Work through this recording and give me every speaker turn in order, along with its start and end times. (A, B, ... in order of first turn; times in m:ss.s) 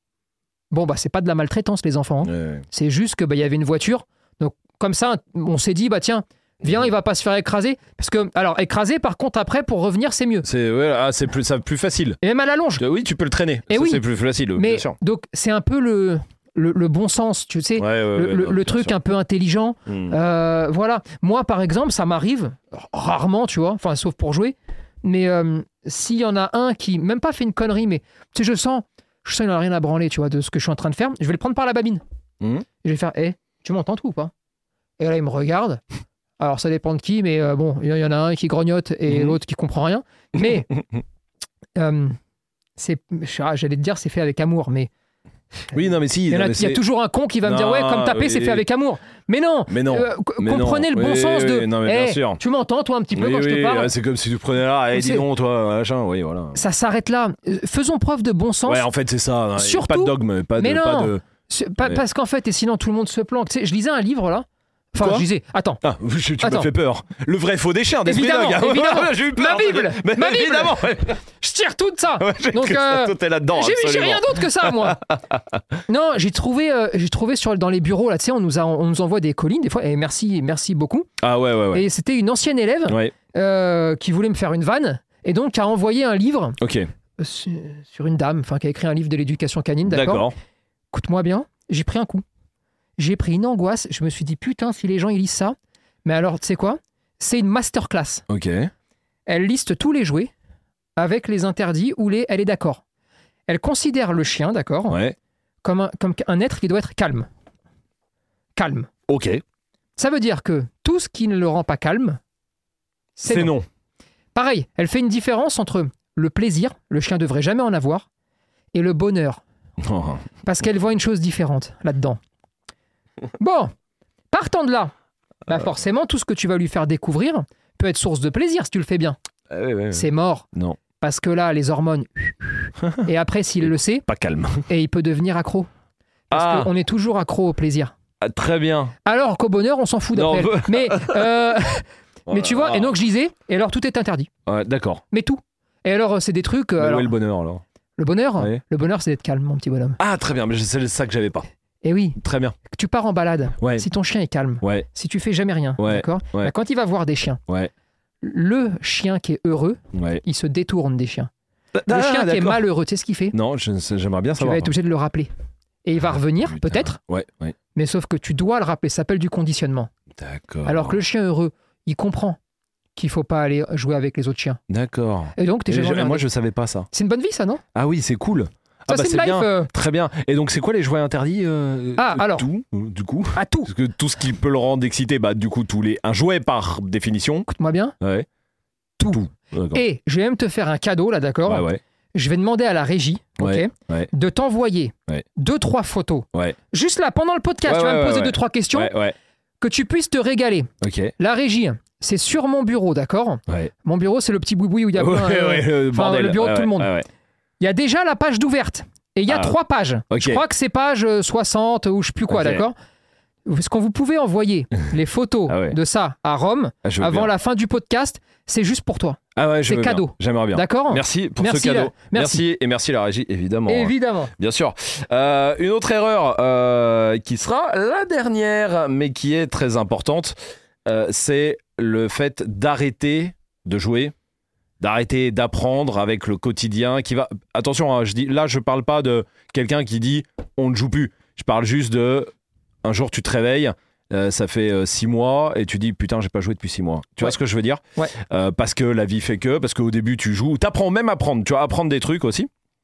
0:00.7-0:10.5 A
0:02.2-0:02.6 B
0:10.4-0:12.2 B
0:12.2-0:12.8 A
0:12.8-0:15.0 B
0:13.7-0:14.0 A
0:14.6-0:32.0 A
0:17.8-0:18.9 B
0:19.9-0:20.2 B
0:32.8-0:34.3 A
0:35.0-0:35.8 A
0:36.4-0:40.7 A
0:39.1-0:39.4 B
0:41.8-0:42.2 A
0:42.8-0:44.9 A
0:45.7-0:46.8 B
0:46.3-0:53.9 A
0:47.4-0:48.6 B
0:49.7-0:52.4 B
0:53.1-0:56.6 B
0:54.9-0:55.2 A
0:56.6-0:58.9 A
0:58.7-1:01.2 B
0:59.6-1:05.8 A
1:05.0-1:05.2 B
1:05.8-1:11.2 B
1:06.4-1:06.7 A
1:08.1-1:15.0 A
1:12.2-1:15.6 B
1:15.9-1:21.1 A
1:21.2-1:21.8 B
1:21.7-1:26.6 A
1:22.9-1:23.1 B
1:26.6-1:26.9 B
1:27.2-1:30.3 A
1:29.9-1:30.3 B
1:30.9-1:32.2 A
1:33.0-1:38.2 A
1:38.3-1:38.7 B
1:39.3-1:40.3 A
1:41.0-1:42.8 A
1:43.5-1:45.0 A
1:44.9-1:45.2 B
1:45.6-1:47.3 A
1:48.6-1:48.9 A
1:49.1-1:49.4 B
1:50.0-1:52.2 A
1:53.2-1:53.5 A
1:53.3-1:53.6 B
1:54.4-1:58.1 A
1:58.7-1:59.4 A
1:59.8-2:00.2 B
2:00.4-2:02.2 A
2:03.4-2:03.7 A
2:04.3-2:04.9 A
2:05.5-2:09.2 A
2:09.5-2:10.8 B
2:09.9-2:10.5 A
2:11.0-2:14.1 A
2:14.1-2:14.6 B
2:14.7-2:15.7 A
2:16.3-2:17.9 A
2:16.3-2:16.7 B
2:18.2-2:18.9 B
2:19.0-2:24.3 A
2:20.1-2:21.3 B
2:22.3-2:23.0 B
2:24.5-2:25.0 B
2:25.1-2:27.1 A
2:26.8-2:27.6 B
2:28.0-2:30.0 A
2:30.0-2:31.5 B
2:31.8-2:37.4 A
2:32.2-2:32.6 B
2:35.8-2:36.5 B
2:38.2-2:41.3 A
2:39.9-2:40.2 B
2:41.8-2:42.6 B
2:41.9-2:43.4 A
2:43.3-2:44.7 B
2:44.4-2:45.3 A
2:45.8-2:47.0 A
2:46.5-2:47.6 B
2:47.8-2:49.9 A
2:50.2-2:51.0 B
2:50.6-2:52.4 A
2:53.0-2:54.6 A
2:54.7-2:56.9 B
2:55.4-2:56.2 A
2:56.9-2:57.6 A
2:57.8-3:07.5 B
2:58.9-2:59.7 A
3:02.0-3:02.5 A
3:03.4-3:03.7 A
3:07.5-3:08.0 A
3:08.0-3:08.3 B
3:09.0-3:18.9 A
3:09.1-3:09.8 B
3:11.5-3:11.8 B
3:13.4-3:14.1 B
3:17.6-3:19.2 B
3:19.6-3:26.9 A
3:20.8-3:21.1 B
3:25.0-3:27.1 B
3:27.6-3:32.8 A
3:29.3-3:29.5 B
3:30.1-3:30.4 B
3:32.3-3:32.6 B
3:33.5-3:42.4 A
3:35.5-3:35.8 B
3:36.8-3:37.3 B
3:39.4-3:54.1 B
3:43.7-3:44.3 A
3:54.8-4:02.3 B
4:02.8-4:12.5 B